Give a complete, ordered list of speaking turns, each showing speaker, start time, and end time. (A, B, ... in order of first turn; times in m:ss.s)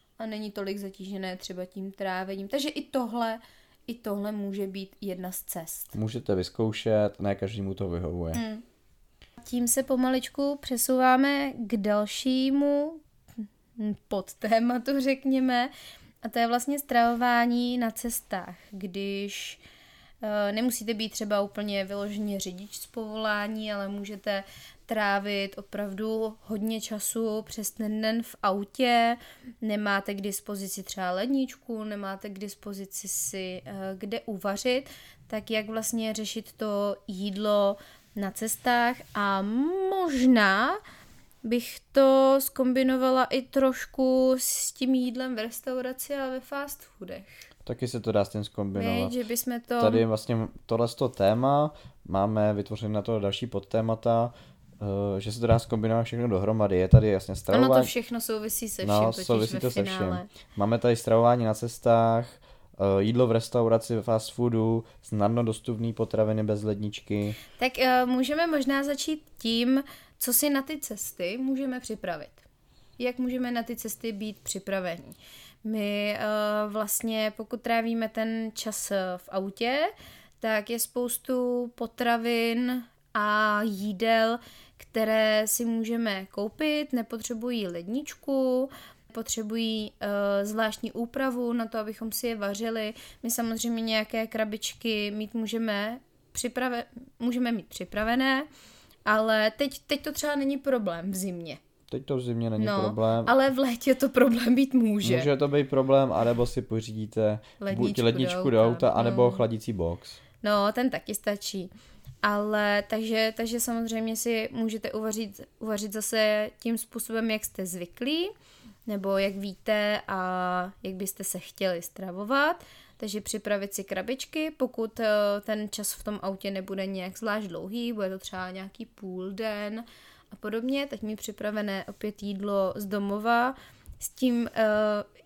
0:00.2-0:06.0 A
0:05.9-0:08.4 B
0:08.3-0:08.6 A
0:09.4-0:13.0 A
0:13.8-0:15.7 A
0:16.2-0:19.6 A
0:20.2-0:40.8 A
0:41.4-0:47.5 A
0:47.6-0:49.1 B
0:48.8-0:50.0 A
0:49.8-0:57.9 B
0:57.5-1:00.3 A
0:58.8-1:07.4 B
1:07.5-1:12.4 A
1:13.0-1:38.5 A
1:39.0-1:41.6 A
1:41.9-1:43.3 B
1:42.6-1:45.3 A
1:45.0-1:50.2 B
1:47.6-1:49.4 A
1:50.4-1:51.7 A
1:52.2-1:58.3 A
1:58.9-2:15.0 A